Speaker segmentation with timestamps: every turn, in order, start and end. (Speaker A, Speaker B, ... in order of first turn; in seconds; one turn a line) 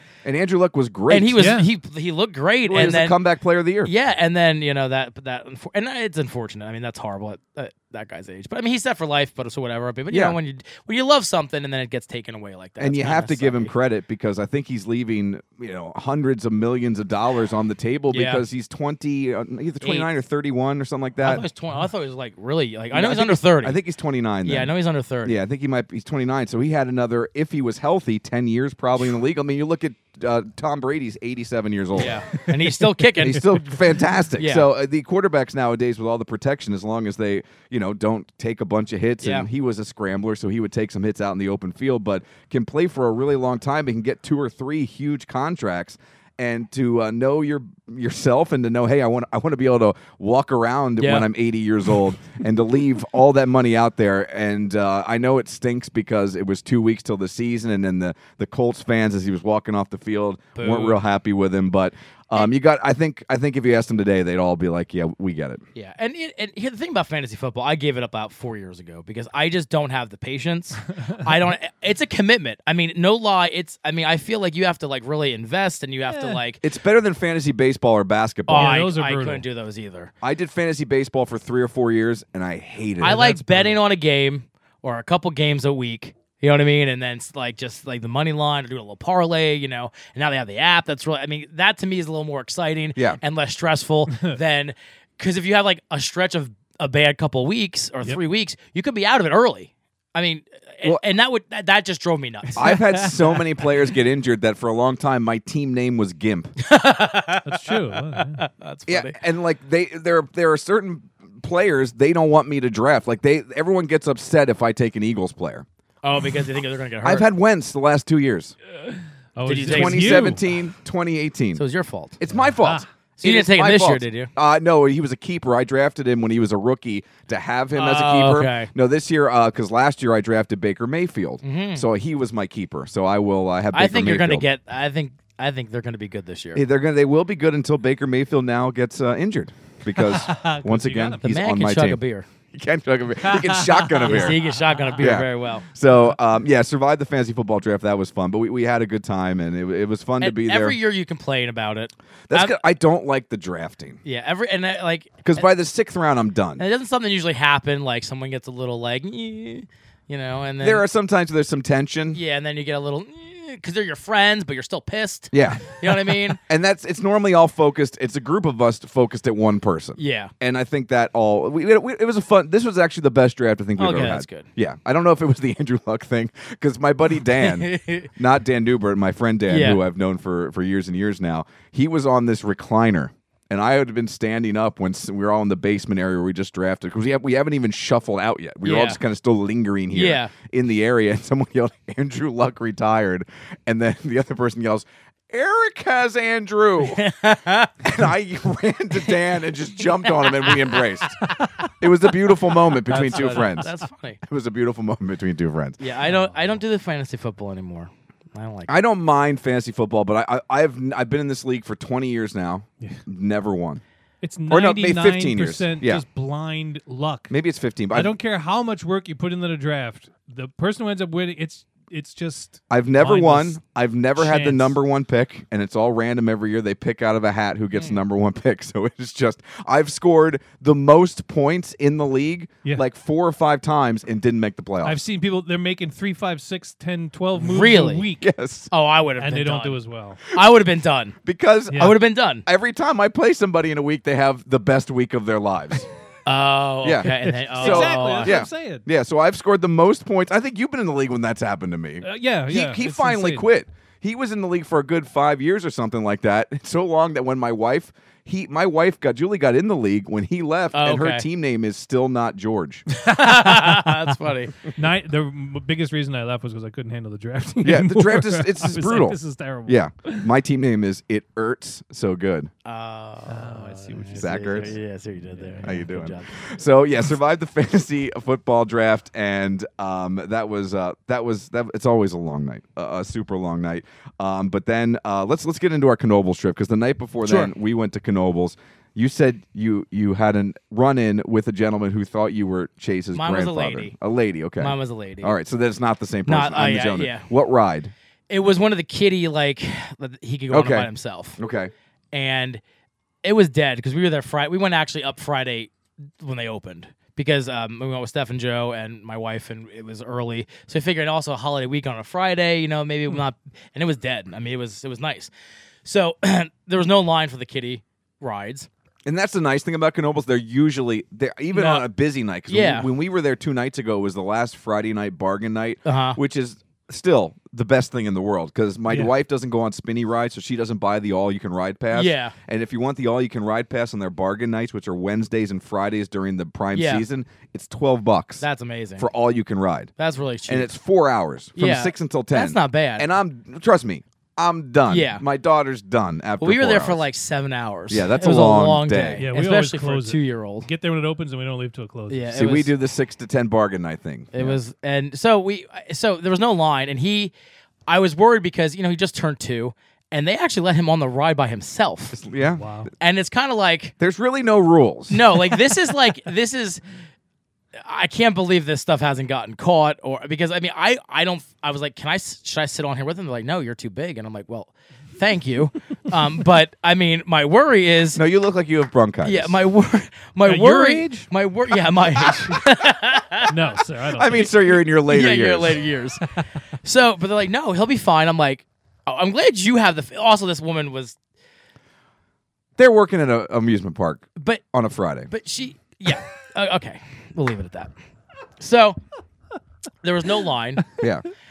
Speaker A: 0.2-1.5
Speaker B: 1.1-3.2
Speaker C: 1.3-1.7
Speaker A: 2.6-3.9
Speaker B: 3.8-13.7
Speaker A: 10.1-10.4
Speaker A: 12.8-21.4
Speaker B: 18.1-18.4
Speaker B: 19.8-20.1
Speaker B: 21.2-23.8
Speaker A: 22.9-24.7
Speaker B: 24.4-25.4
Speaker A: 25.2-32.2
Speaker B: 31.9-33.6
Speaker A: 33.2-65.6
Speaker B: 34.4-34.7
Speaker B: 39.2-39.5
Speaker B: 51.0-51.3
Speaker B: 60.5-61.0
Speaker B: 65.8-76.6
Speaker C: 76.1-76.4
Speaker A: 76.6-78.8
Speaker B: 78.5-80.1
Speaker C: 78.5-79.4
Speaker A: 80.2-83.7
Speaker B: 83.0-103.1
Speaker C: 83.0-83.7
Speaker A: 93.0-93.2
Speaker A: 102.5-106.5
Speaker B: 106.6-109.2
Speaker C: 107.4-108.4
Speaker A: 108.9-115.7
Speaker B: 116.0-117.3
Speaker A: 117.0-118.5
Speaker C: 118.9-120.4
Speaker B: 119.5-120.4
Speaker A: 119.6-121.6
Speaker B: 121.5-122.2
Speaker A: 122.2-134.4
Speaker C: 122.3-122.8
Speaker B: 123.2-124.3
Speaker B: 127.8-128.7
Speaker B: 131.4-131.8
Speaker B: 133.7-136.6
Speaker A: 136.5-142.0
Speaker C: 140.0-141.2
Speaker B: 141.2-142.3
Speaker A: 142.5-144.4
Speaker C: 143.2-145.1
Speaker B: 144.1-145.7
Speaker A: 145.0-150.8
Speaker B: 150.2-152.6
Speaker A: 152.3-154.0
Speaker B: 154.0-155.5
Speaker A: 155.2-156.6
Speaker B: 156.6-160.8
Speaker A: 160.6-162.2
Speaker B: 162.1-166.4
Speaker A: 165.3-165.9
Speaker A: 166.5-197.0
Speaker B: 170.0-170.3
Speaker B: 173.8-174.5
Speaker B: 177.4-178.1
Speaker B: 179.5-179.8
Speaker B: 188.6-189.0
Speaker B: 189.9-190.3
Speaker B: 196.8-197.8
Speaker A: 197.8-201.2
Speaker B: 199.8-201.3
Speaker A: 201.8-203.7
Speaker B: 202.9-204.2
Speaker C: 202.9-203.7
Speaker A: 204.2-205.8
Speaker B: 205.8-208.7
Speaker C: 206.0-206.4
Speaker A: 208.7-213.8
Speaker C: 214.2-217.3
Speaker A: 214.5-216.0
Speaker A: 217.3-218.1
Speaker C: 217.9-223.6
Speaker A: 222.7-235.0
Speaker C: 224.2-224.8
Speaker B: 227.7-228.0
Speaker C: 234.8-238.3
Speaker B: 237.3-238.1
Speaker A: 238.2-238.7
Speaker B: 238.7-241.2
Speaker C: 239.2-240.2
Speaker A: 241.2-241.9
Speaker B: 241.8-242.4
Speaker A: 242.4-245.9
Speaker B: 246.2-248.4
Speaker A: 246.8-262.8
Speaker C: 247.5-248.8
Speaker C: 252.0-253.5
Speaker B: 260.7-261.2
Speaker B: 263.0-264.6
Speaker C: 263.1-263.8
Speaker C: 264.7-270.3
Speaker A: 267.6-272.5
Speaker B: 272.6-276.3
Speaker C: 273.3-275.8
Speaker A: 274.1-274.7
Speaker A: 275.6-297.9
Speaker B: 287.2-287.5
Speaker B: 293.1-293.9
Speaker B: 294.6-295.3
Speaker B: 296.2-297.3
Speaker B: 298.3-301.4
Speaker A: 300.5-301.7
Speaker B: 302.1-302.6
Speaker B: 303.2-315.3
Speaker B: 315.8-318.7
Speaker A: 319.1-338.4
Speaker B: 321.5-321.9
Speaker B: 322.5-322.9
Speaker B: 325.8-326.2
Speaker B: 331.9-332.3
Speaker B: 336.7-337.0
Speaker B: 338.4-339.1
Speaker A: 339.0-339.9
Speaker B: 340.0-340.7
Speaker A: 340.5-347.0
Speaker B: 341.6-343.1
Speaker B: 344.9-345.2
Speaker B: 346.4-350.7
Speaker A: 347.9-349.2
Speaker C: 349.2-352.5
Speaker B: 352.1-352.7
Speaker A: 352.3-354.5
Speaker B: 354.3-357.3
Speaker B: 357.9-362.2
Speaker A: 362.1-362.6
Speaker C: 362.4-362.9
Speaker B: 363.0-363.9
Speaker A: 364.0-365.3
Speaker B: 365.1-366.8
Speaker B: 367.8-378.2
Speaker A: 378.1-379.6
Speaker B: 379.2-383.5
Speaker C: 380.4-381.3
Speaker C: 383.5-384.5
Speaker A: 384.1-385.8
Speaker B: 385.1-386.3
Speaker B: 386.8-391.1
Speaker A: 392.8-395.3
Speaker B: 394.4-394.6
Speaker B: 395.3-397.9
Speaker B: 398.6-399.0
Speaker B: 400.0-400.9
Speaker A: 401.0-401.2